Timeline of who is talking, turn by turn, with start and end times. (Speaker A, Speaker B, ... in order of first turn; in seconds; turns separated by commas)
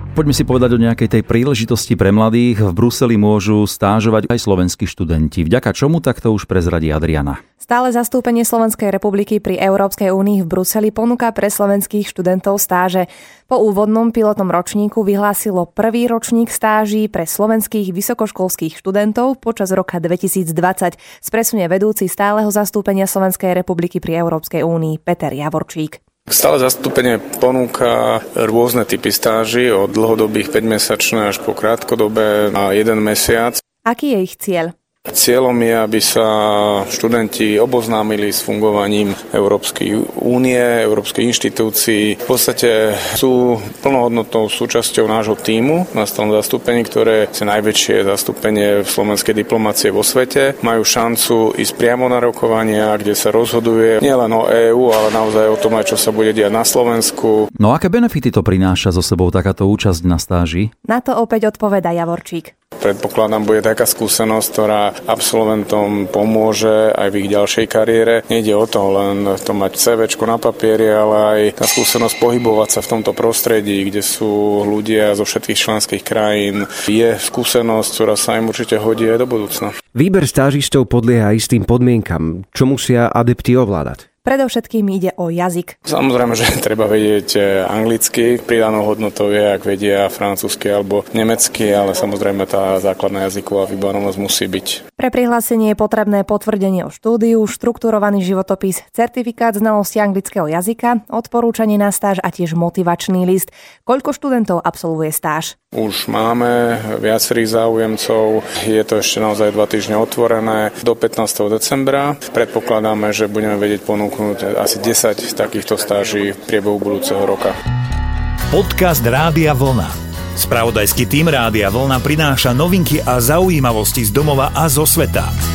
Speaker A: 0.1-7.4, Speaker B: 7.6-26.0, Speaker C: 26.3-33.6, Speaker B: 33.8-34.7, Speaker C: 35.1-57.5, Speaker A: 57.6-60.7, Speaker B: 60.8-62.5, Speaker C: 62.8-79.8, Speaker D: 79.9-84.0, Speaker B: 84.2-85.8, Speaker C: 85.8-94.8, Speaker B: 95.0-105.5, Speaker C: 105.7-117.5, Speaker E: 118.5-125.3